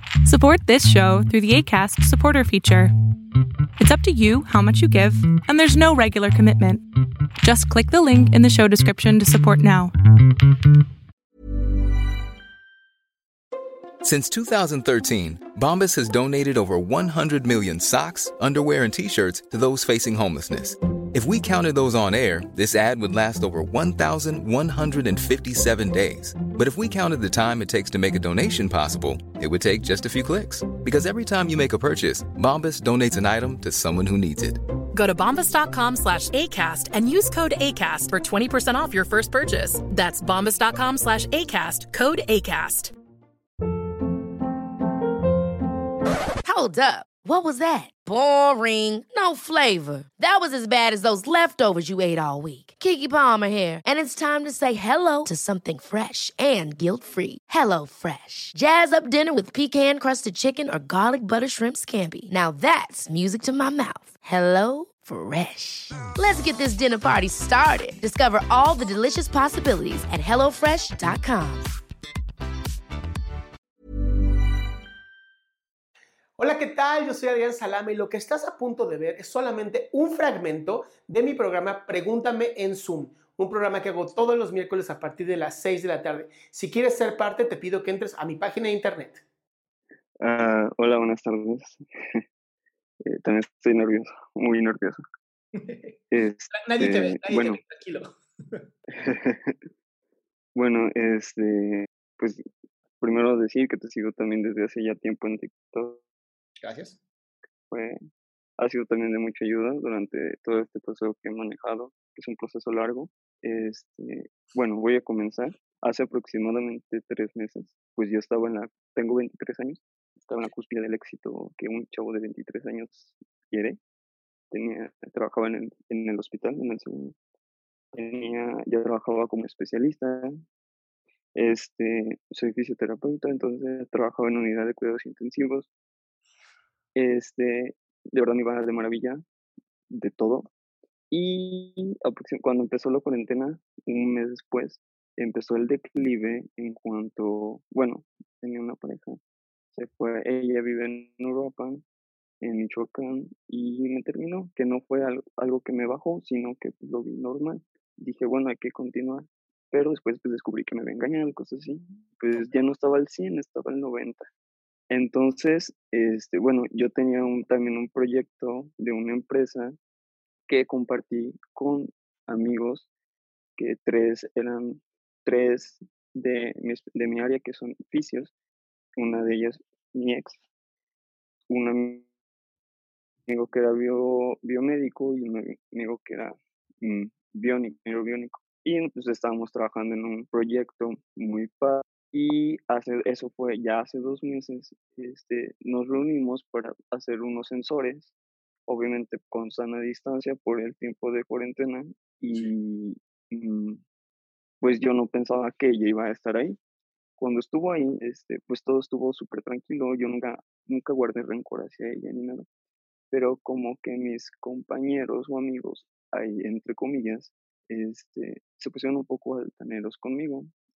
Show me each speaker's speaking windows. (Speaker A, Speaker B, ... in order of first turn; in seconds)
Speaker A: 0.2-2.9, 3.8-6.8, 7.4-9.9
Speaker B: 14.0-34.6
Speaker C: 34.9-42.9
Speaker D: 46.4-71.7
Speaker E: 76.4-89.2, 95.6-98.7, 106.6-107.0
Speaker F: 90.2-92.2, 93.0-95.0, 96.1-97.6, 98.9-99.5, 100.5-102.4, 103.0-106.0, 107.7-108.0, 108.6-123.8, 124.5-127.1, 127.9-130.3, 131.3-135.7, 136.9-139.2, 139.9-140.5, 141.1-149.2, 149.7-151.8, 152.4-164.3, 164.9-169.7, 170.5-172.9, 173.6-178.3, 178.9-180.4, 181.5-182.1, 183.3-198.1, 198.7-203.8, 204.6-206.6, 207.2-212.4, 213.1-220.5